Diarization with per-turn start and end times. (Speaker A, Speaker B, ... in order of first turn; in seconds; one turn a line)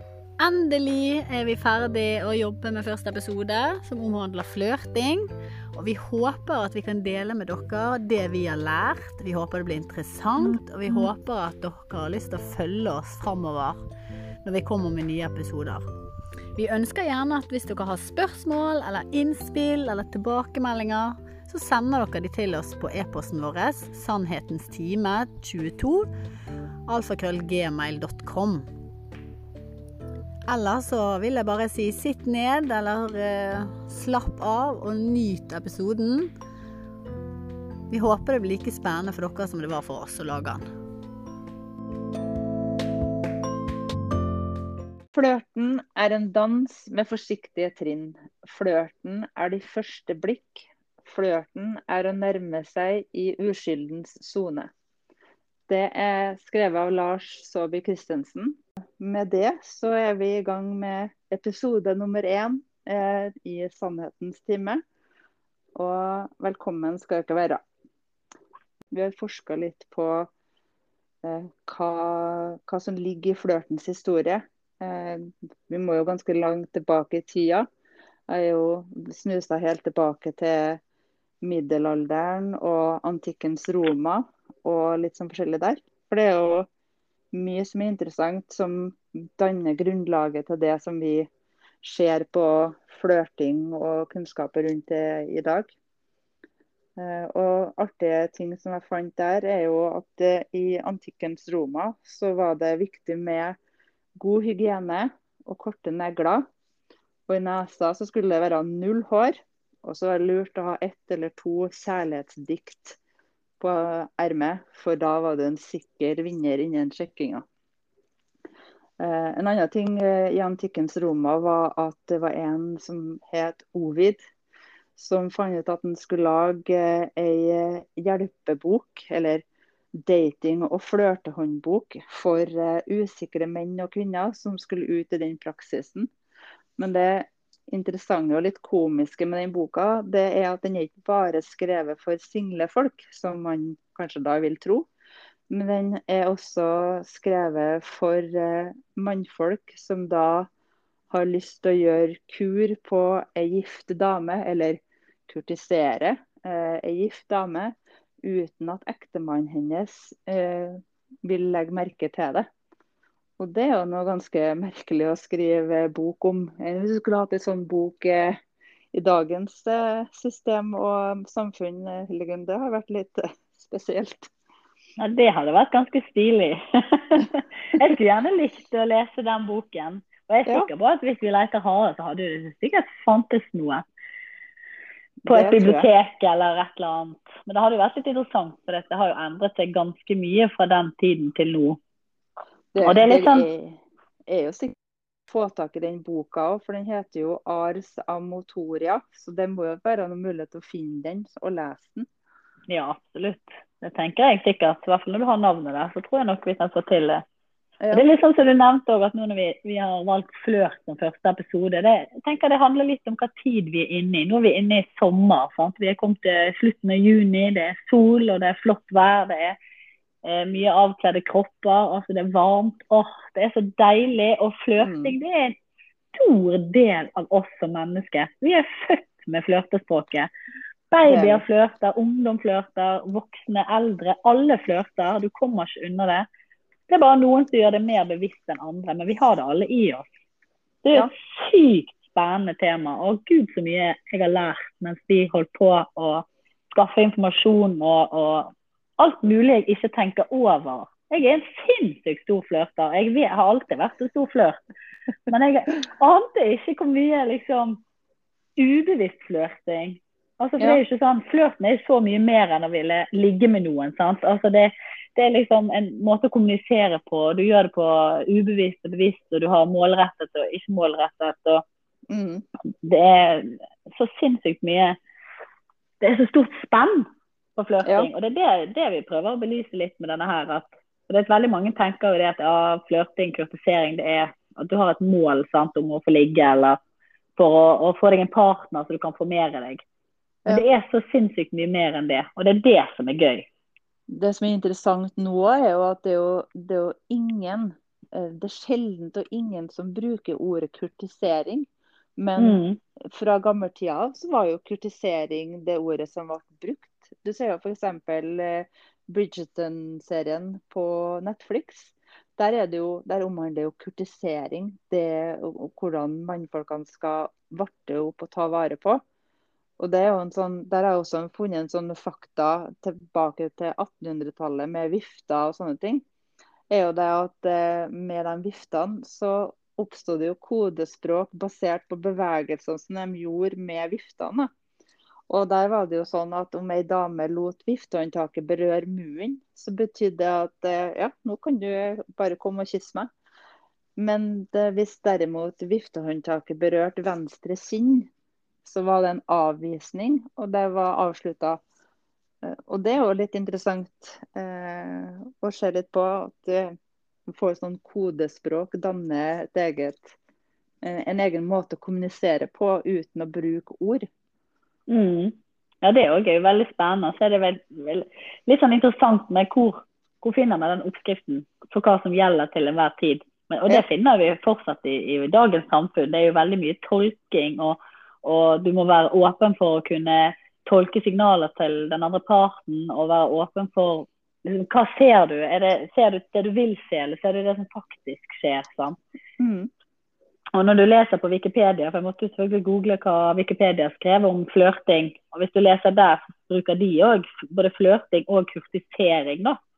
Speaker A: 0.4-13.8
Speaker B: 10.5-11.1
Speaker A: 14.4-15.9
Speaker A: 16.6-26.1
Speaker A: 26.9-28.7
Speaker A: 30.5-36.3
Speaker A: 37.9-40.7
Speaker B: 45.1-54.7
Speaker B: 55.7-64.8
Speaker B: 65.8-67.6
Speaker B: 68.9-70.3
Speaker B: 71.2-77.7
Speaker B: 78.3-80.8
Speaker B: 81.4-86.7
Speaker B: 87.3-91.3
Speaker B: 91.8-95.7
Speaker B: 97.0-103.6
Speaker B: 104.2-106.5
Speaker B: 107.3-113.0
Speaker B: 113.6-117.4
Speaker B: 119.0-124.2
Speaker B: 125.0-129.4
Speaker B: 129.9-136.1
Speaker B: 136.8-144.9
Speaker B: 145.5-150.5
Speaker B: 151.1-162.5
Speaker B: 163.4-168.4
Speaker B: 168.9-174.3
Speaker C: 175.0-183.8
Speaker B: 185.2-185.9
Speaker C: 185.3-191.8
Speaker B: 192.7-194.8
Speaker C: 192.8-193.5
Speaker B: 195.3-202.1
Speaker C: 202.7-207.2
Speaker B: 207.8-208.1
Speaker C: 207.9-219.6
Speaker C: 220.2-225.6
Speaker B: 224.8-225.2
Speaker C: 226.1-230.3
Speaker C: 230.9-236.3
Speaker B: 231.1-231.4
Speaker C: 236.9-240.1
Speaker C: 240.8-254.6
Speaker C: 255.3-257.8
Speaker C: 258.6-271.6
Speaker B: 272.1-272.4
Speaker C: 272.8-275.0
Speaker C: 276.0-286.8
Speaker B: 277.8-278.1
Speaker C: 287.4-289.8
Speaker C: 290.5-293.5
Speaker B: 294.1-302.6
Speaker C: 302.4-302.8
Speaker B: 303.1-319.0
Speaker B: 319.8-326.0
Speaker B: 326.7-334.5
Speaker B: 335.3-343.1
Speaker B: 344.0-348.1
Speaker B: 348.6-351.6
Speaker B: 352.4-356.8
Speaker B: 357.3-360.1
Speaker B: 360.8-364.1
Speaker C: 364.9-389.0
Speaker B: 389.4-389.7
Speaker C: 390.5-399.6